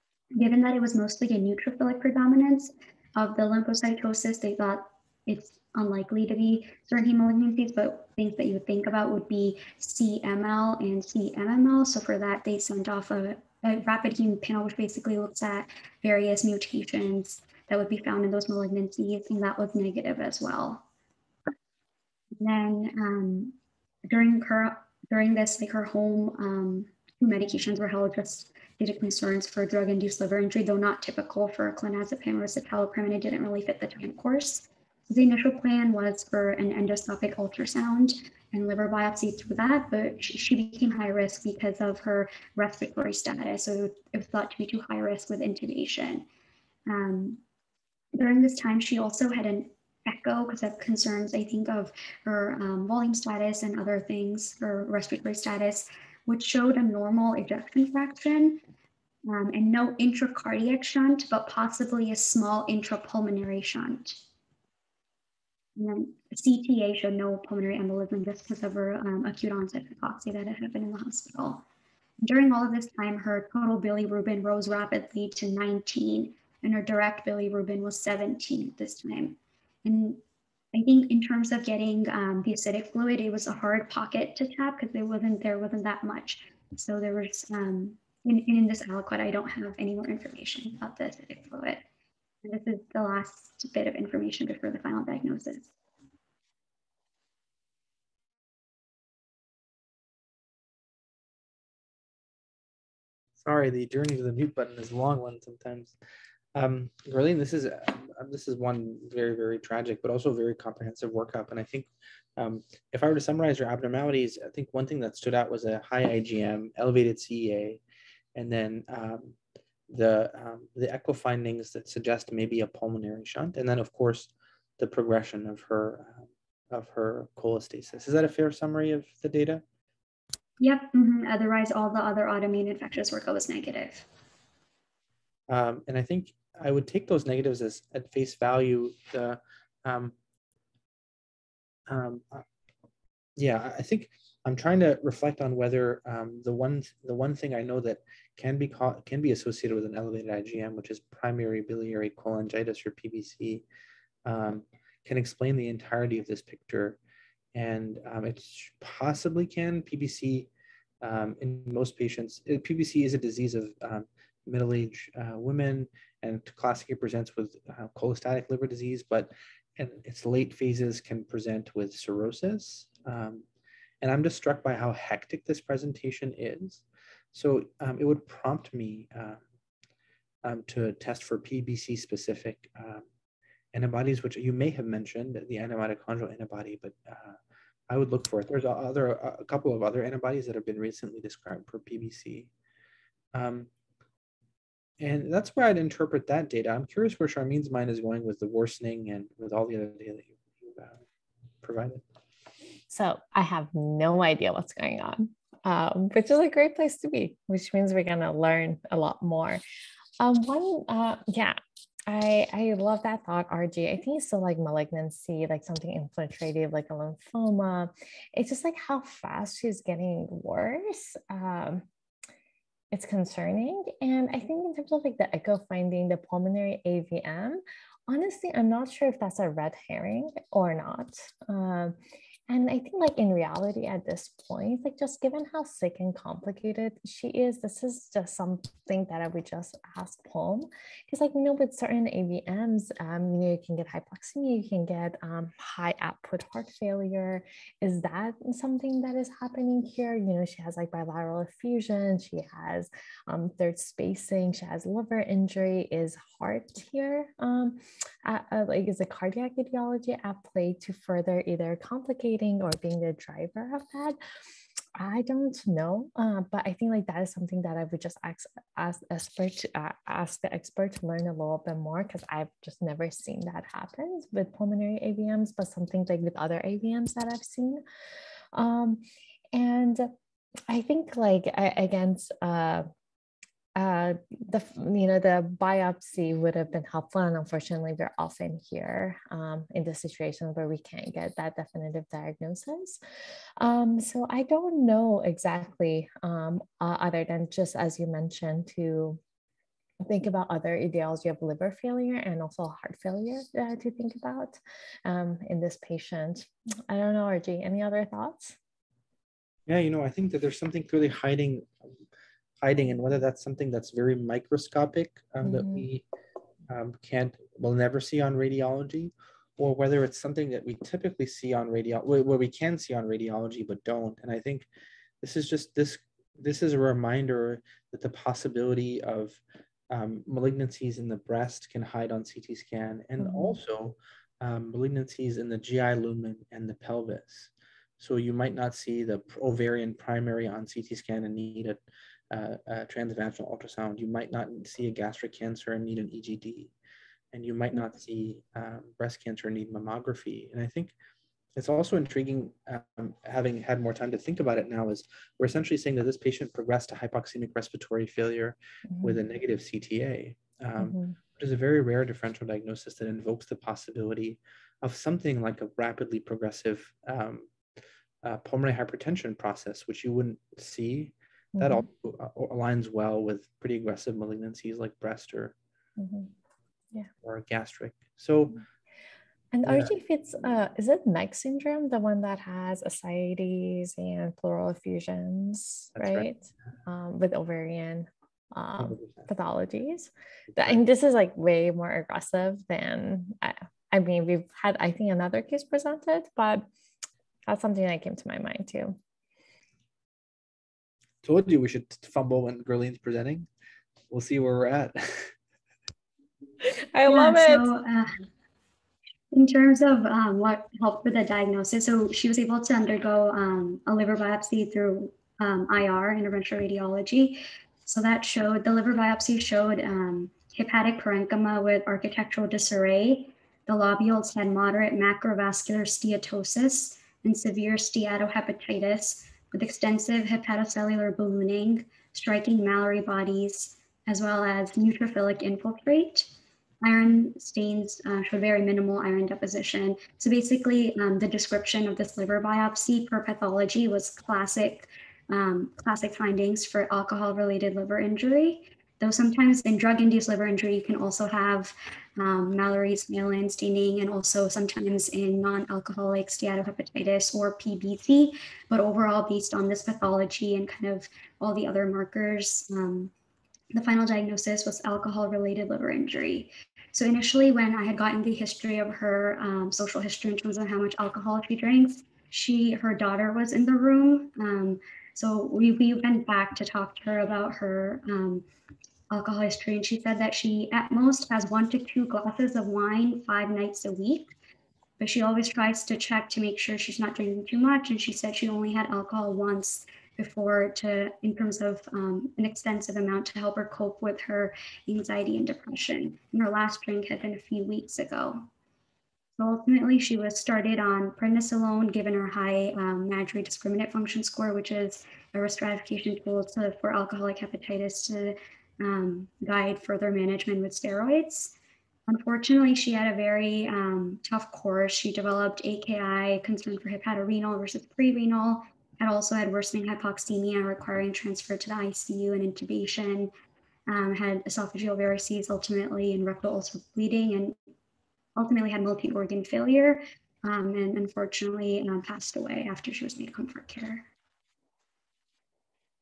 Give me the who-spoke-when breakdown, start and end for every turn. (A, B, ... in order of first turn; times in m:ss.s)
0:00.4-0:20.8 A
0:22.4-0:23.5 A
0:24.1-0:46.3 A
0:46.9-0:47.4 A
0:48.1-0:58.6 A
0:59.2-1:04.2 A
1:05.8-1:11.6 A
1:12.2-1:20.2 A
1:20.7-1:31.8 A
1:32.4-1:35.7 A
1:43.4-1:45.9 B
1:46.5-1:57.8 B
1:58.4-1:59.4 B
1:59.9-2:09.6 B
2:10.6-2:14.0 A
2:15.5-2:20.1 B
2:21.9-2:22.4 B
2:23.4-2:33.6 B
2:34.2-2:37.0 B
2:37.5-2:40.5 B
2:41.0-2:53.4 B
2:54.0-2:59.4 B
3:00.4-3:03.0 B
3:03.7-3:07.4 B
3:07.9-3:12.5 B
3:13.3-3:13.7 B
3:15.0-3:21.0 B
3:21.6-3:22.0 B
3:22.9-3:29.6 C
3:30.2-3:31.6 C
3:32.1-3:41.8 C
3:42.9-3:51.9 C
3:52.5-4:24.2 C
4:25.0-4:37.8 C
4:38.5-4:39.0 C
4:39.5-4:40.1 C
4:40.7-4:42.8 C
4:43.7-4:53.0 C
4:53.6-4:59.2 C
5:00.0-5:08.6 C
5:09.7-5:11.7 B
5:12.6-5:16.0 B
5:15.4-5:15.8 C
5:16.7-5:24.7 B
5:25.2-5:41.8 B
5:33.2-5:33.6 C
5:42.3-5:46.7 B
5:47.3-5:50.9 B
5:51.6-6:07.5 B
5:58.9-5:59.2 C
6:00.8-6:01.1 C
6:08.2-6:15.5 B
6:11.5-6:11.8 C
6:16.0-6:16.3 C
6:17.2-6:18.6 B
6:19.5-6:36.6 C
6:19.6-6:20.0 B
6:26.0-6:26.3 B
6:28.8-6:29.3 B
6:30.5-6:30.8 B
6:37.5-6:39.0 C
6:41.2-6:43.5 B
6:44.1-6:45.3 B
6:46.6-6:47.7 C
6:47.0-6:48.3 A
6:49.3-7:43.1 A
7:43.7-7:58.4 A
7:59.1-8:04.3 A
8:05.0-8:18.5 A
8:19.4-8:31.5 A
8:32.1-8:43.3 A
8:43.9-8:47.5 A
8:48.4-8:54.1 A